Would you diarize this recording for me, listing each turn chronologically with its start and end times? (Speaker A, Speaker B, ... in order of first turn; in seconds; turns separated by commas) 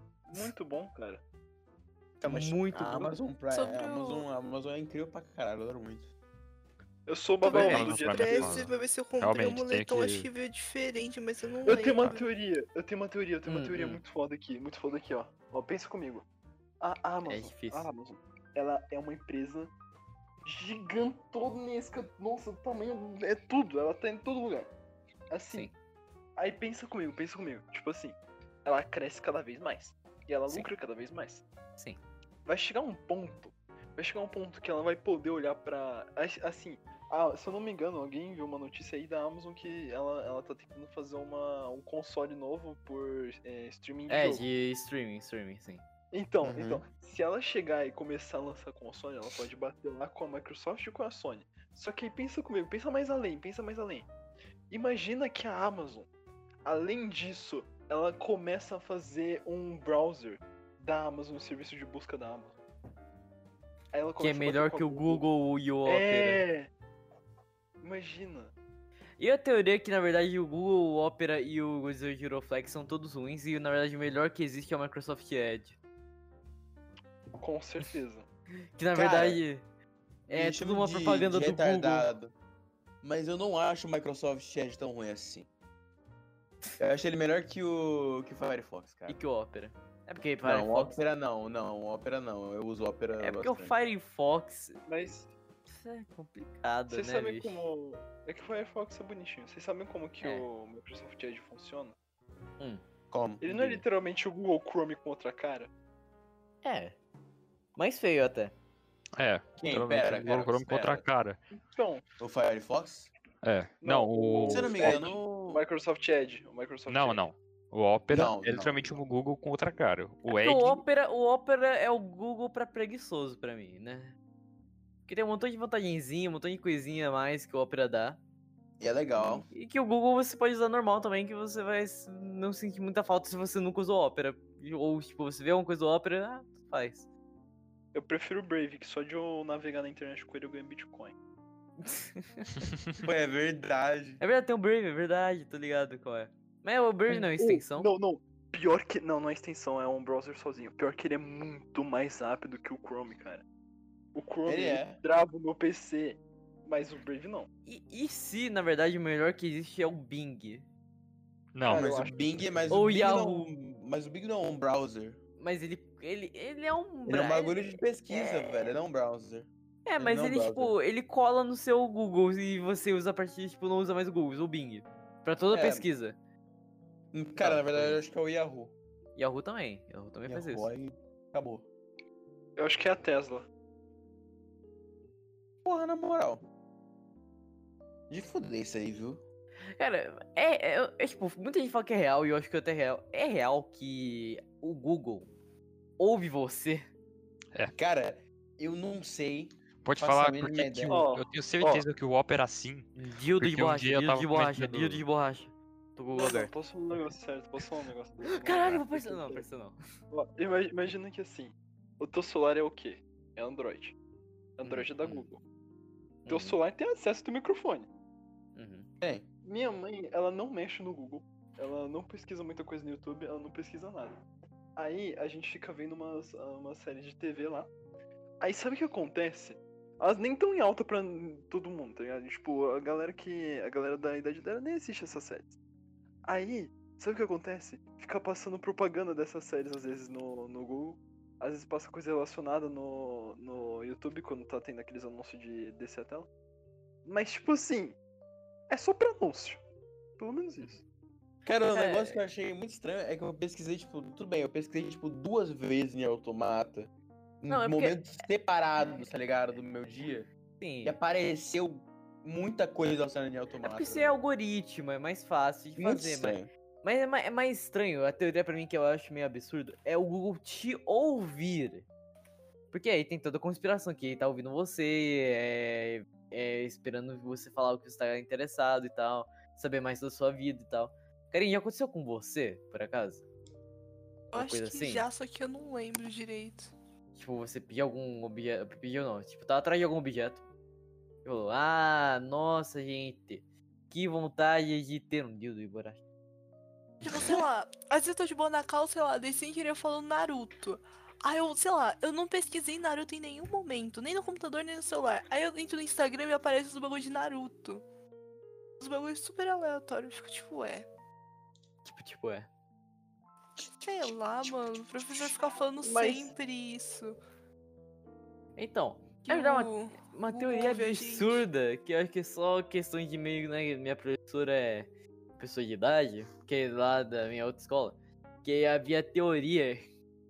Speaker A: 0.3-1.2, Speaker B: 2.2-6.1, Speaker C: 2.2-3.1, Speaker D: 3.5-4.2, Speaker A: 7.1-8.6, Speaker D: 7.4-12.2, Speaker E: 7.5-10.3, Speaker A: 11.6-16.2, Speaker C: 13.4-14.0, Speaker A: 16.8-19.7, Speaker C: 17.2-17.9, Speaker A: 20.4-24.7, Speaker A: 25.3-25.7, Speaker A: 26.4-31.4, Speaker A: 32.5-44.4, Speaker C: 44.1-45.8, Speaker A: 46.1-54.1, Speaker B: 46.4-46.8, Speaker A: 54.7-56.1, Speaker A: 56.6-62.5, Speaker A: 63.9-65.2, Speaker C: 64.2-66.4, Speaker A: 65.8-66.7, Speaker A: 67.8-68.5, Speaker C: 69.2-75.8, Speaker A: 77.4-78.2, Speaker C: 78.8-79.6, Speaker B: 78.9-79.4, Speaker C: 80.3-82.1, Speaker B: 80.3-82.3, Speaker B: 83.0-85.5, Speaker B: 86.8-89.2, Speaker C: 89.1-91.0, Speaker B: 90.4-93.7, Speaker C: 93.2-94.8, Speaker A: 94.9-95.3, Speaker C: 95.7-97.6, Speaker A: 96.9-101.9, Speaker C: 100.2-100.5, Speaker B: 103.1-103.5, Speaker A: 103.4-105.7, Speaker C: 103.5-103.8, Speaker C: 106.6-107.0, Speaker C: 107.8-108.5, Speaker E: 109.2-111.4, Speaker B: 109.6-111.0, Speaker A: 111.7-112.0, Speaker B: 112.2-113.1, Speaker E: 113.4-115.1, Speaker A: 113.8-117.2, Speaker B: 114.4-115.6, Speaker E: 116.9-120.8, Speaker B: 118.1-119.0, Speaker C: 120.3-124.2, Speaker C: 125.1-128.2, Speaker B: 128.8-129.4, Speaker C: 129.2-137.1, Speaker A: 137.9-141.1, Speaker C: 141.8-142.6, Speaker B: 143.0-144.2, Speaker C: 144.2-147.9, Speaker A: 147.1-153.4, Speaker A: 154.1-157.5, Speaker B: 154.4-155.0, Speaker C: 157.7-160.7, Speaker E: 161.5-161.9, Speaker A: 161.6-162.2, Speaker B: 161.7-165.2, Speaker C: 162.7-163.5, Speaker C: 165.4-168.7, Speaker B: 167.1-170.8, Speaker C: 169.8-176.2, Speaker B: 175.5-175.8, Speaker B: 177.1-178.7, Speaker C: 177.4-178.0, Speaker C: 179.2-180.7, Speaker B: 180.3-181.7, Speaker A: 182.6-183.5, Speaker B: 185.6-186.4, Speaker B: 188.1-189.2, Speaker C: 189.8-195.3, Speaker C: 196.0-196.9, Speaker B: 197.8-201.0, Speaker E: 199.8-205.0, Speaker A: 200.9-201.8, Speaker C: 202.9-206.5, Speaker A: 206.2-209.4, Speaker C: 208.2-209.8, Speaker A: 210.1-213.9, Speaker A: 214.6-215.4, Speaker C: 214.6-215.3, Speaker C: 216.2-216.6, Speaker A: 216.3-217.9, Speaker C: 218.5-218.9, Speaker B: 219.0-219.2, Speaker A: 219.4-224.2, Speaker A: 224.8-227.7, Speaker A: 228.4-235.5, Speaker A: 236.2-246.3, Speaker A: 247.0-248.0, Speaker A: 248.7-249.6, Speaker A: 250.2-250.8, Speaker B: 251.4-260.3, Speaker C: 251.7-252.2, Speaker C: 257.5-258.0, Speaker C: 260.6-261.0, Speaker B: 260.8-264.1, Speaker C: 263.6-271.9, Speaker B: 265.8-266.5, Speaker C: 272.7-283.2, Speaker D: 284.3-286.7, Speaker C: 284.3-285.1, Speaker C: 287.1-290.4, Speaker C: 291.2-296.0, Speaker D: 297.0-307.8, Speaker D: 308.8-310.9, Speaker C: 311.8-312.5, Speaker D: 313.6-317.2, Speaker A: 315.8-316.3, Speaker C: 318.6-329.8, Speaker D: 319.2-321.4